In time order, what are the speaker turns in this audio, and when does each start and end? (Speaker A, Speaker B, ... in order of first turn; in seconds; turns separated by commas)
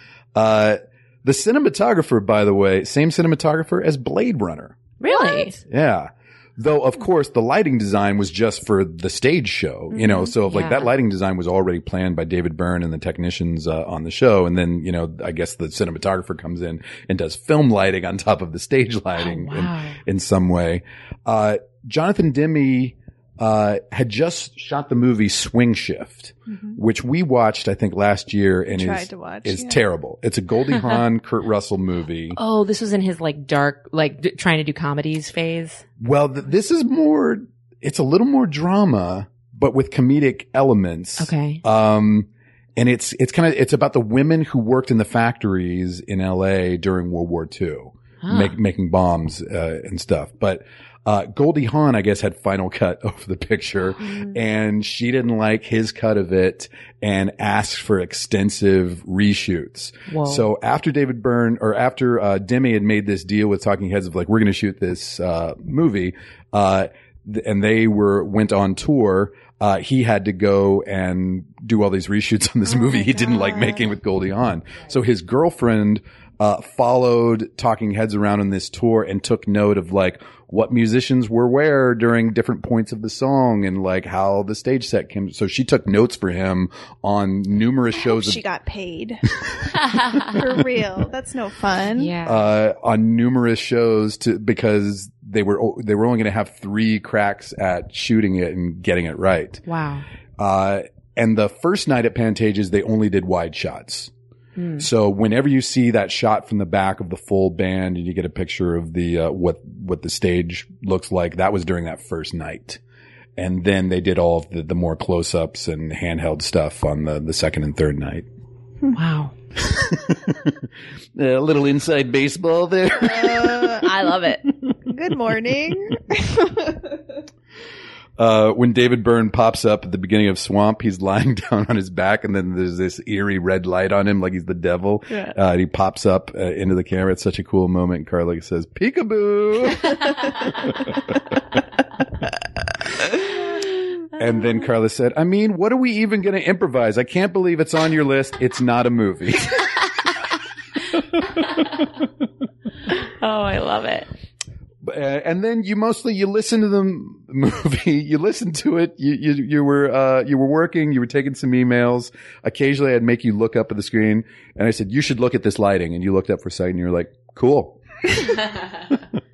Speaker A: 0.3-4.8, Speaker B: 5.0-5.6, Speaker C: 5.1-5.5, Speaker A: 5.7-32.4, Speaker B: 10.5-10.9, Speaker B: 19.2-20.0, Speaker C: 26.5-26.8, Speaker C: 28.7-29.8, Speaker B: 32.4-35.8, Speaker A: 36.0-88.4, Speaker B: 41.2-41.6, Speaker B: 48.2-48.5, Speaker B: 60.1-60.5, Speaker C: 72.7-73.9, Speaker C: 87.9-89.2, Speaker C: 90.2-92.1, Speaker B: 92.0-92.4, Speaker A: 92.2-99.6, Speaker B: 99.7-100.0, Speaker A: 100.4-104.1, Speaker B: 104.6-104.8, Speaker A: 104.8-112.8, Speaker A: 113.4-118.2, Speaker B: 118.9-119.3, Speaker A: 120.1-120.5, Speaker A: 121.2-123.8, Speaker C: 123.2-123.8, Speaker B: 123.7-124.4, Speaker C: 124.8-127.0, Speaker A: 128.2-140.9, Speaker A: 144.2-149.7, Speaker B: 152.9-154.1, Speaker A: 154.8-167.8